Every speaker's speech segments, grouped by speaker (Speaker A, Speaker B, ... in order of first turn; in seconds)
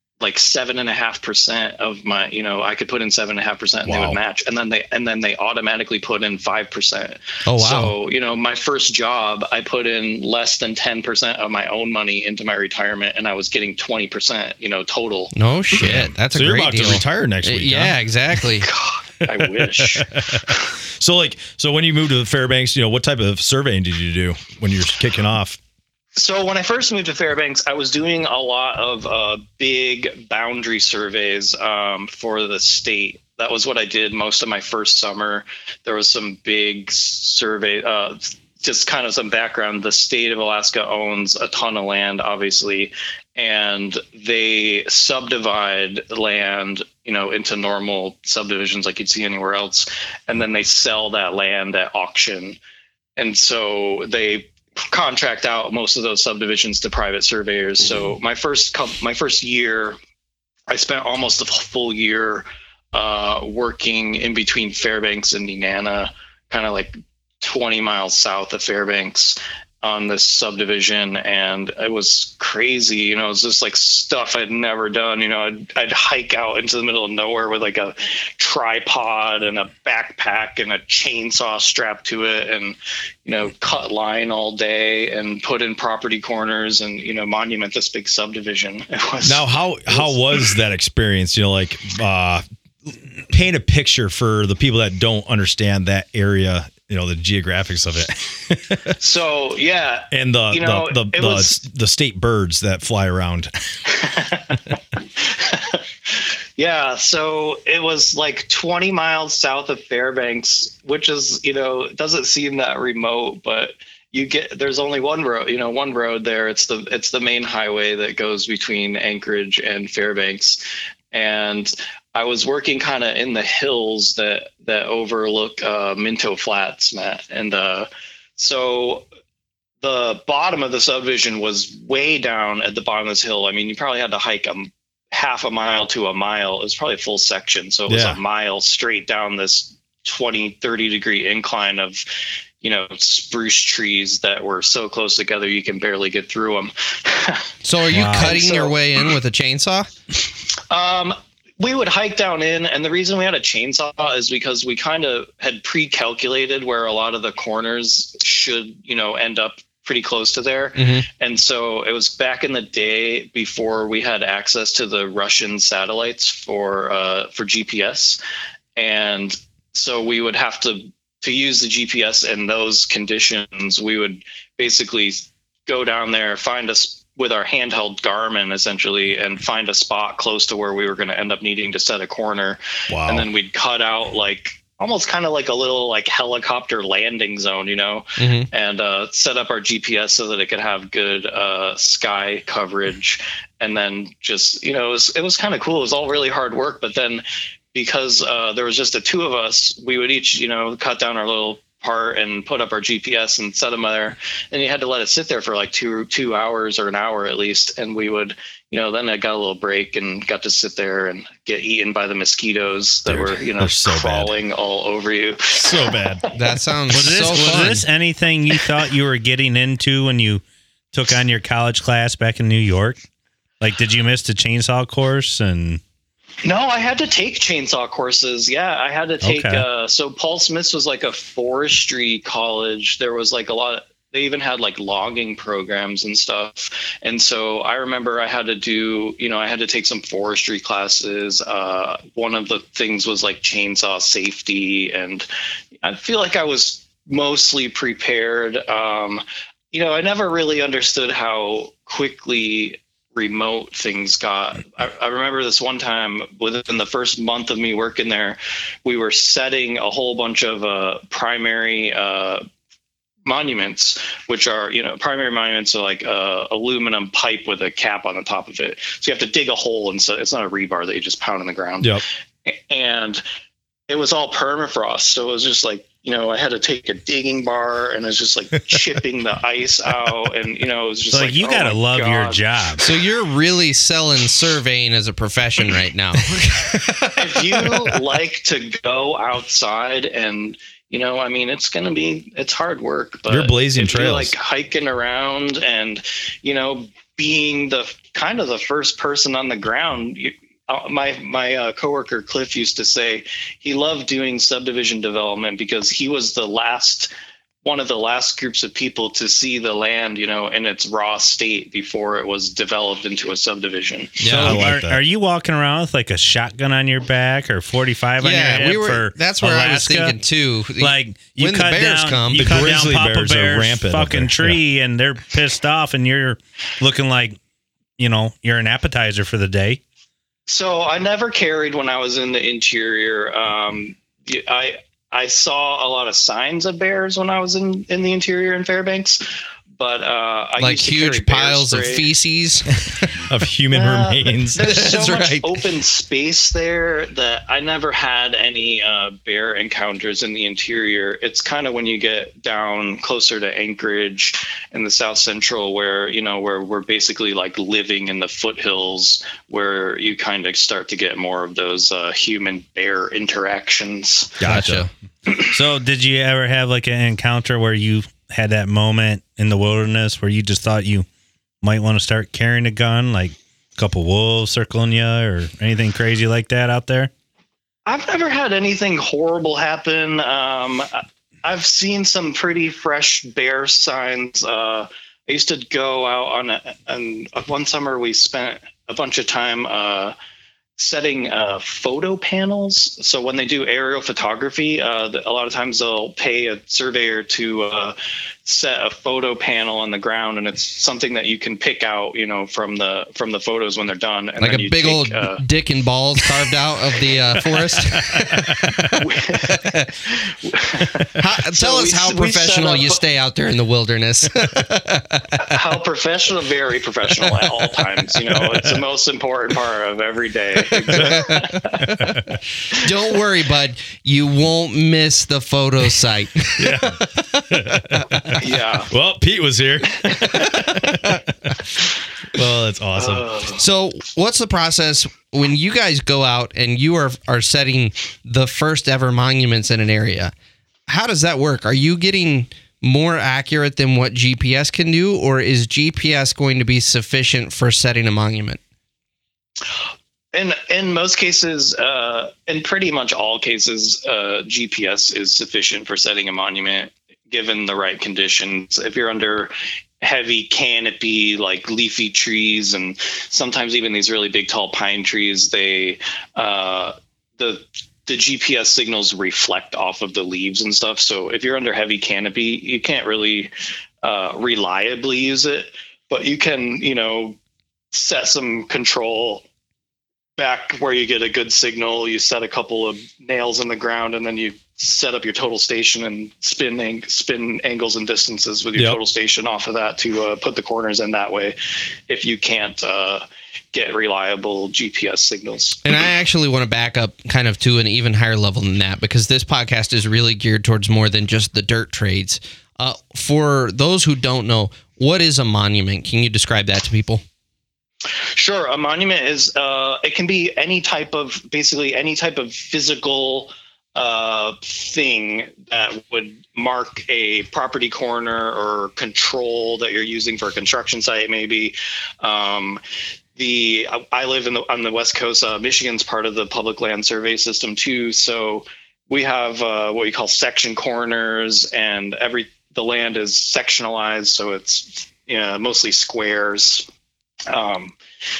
Speaker A: 0.2-15.3, 18.6-20.7, 26.1-52.6, 53.2-60.0, 60.7-90.4, 99.0-101.6, 103.9-129.1, 129.8-142.0, 142.6-149.0, 150.7-168.2, 168.8-216.6, 226.4-245.3, 245.8-262.4, 263.2-273.2, 273.9-282.4, 287.1-307.1, 307.6-314.3, 330.5-339.2, 339.8-342.1, 343.7-364.4, 377.9-390.1, 390.8-405.4, 408.9-413.0, 415.4-421.9, 428.4-428.9, 430.0-430.6, 432.9-433.6, 450.3-473.5, 474.0-477.4, 477.9-479.4, 480.4-491.6, 492.1-495.8, 508.4-522.8, 523.4-536.9, 537.5-537.9
Speaker B: 3.9-4.2, 15.7-18.0, 19.4-25.6, 89.2-99.0, 100.1-103.5, 137.9-138.2, 182.9-183.3, 213.1-214.3, 215.5-216.2, 293.3-294.3, 314.3-315.0, 322.3-324.6, 343.3-344.8, 364.4-364.9, 407.8-408.9, 418.4-418.8, 420.9-421.2, 426.6-428.3, 428.9-431.8, 432.3-433.3
Speaker C: 7.4-7.9, 15.3-18.7, 147.6-149.9, 160.8-161.0, 188.2-188.5, 216.3-217.9, 282.8-287.1, 314.2-314.6, 318.2-322.4, 340.6-343.1, 344.6-345.6, 364.4-364.9, 404.4-408.4, 409.5-409.9, 411.1-415.5, 420.9-422.2, 422.7-428.4, 430.7-431.1, 433.6-440.3, 440.9-448.6, 495.8-507.2
Speaker D: 147.9-148.4, 216.9-223.0, 223.6-225.8, 229.2-229.6, 281.1-282.9, 314.3-320.2, 320.8-327.4, 328.0-329.8, 365.3-371.1, 371.6-377.1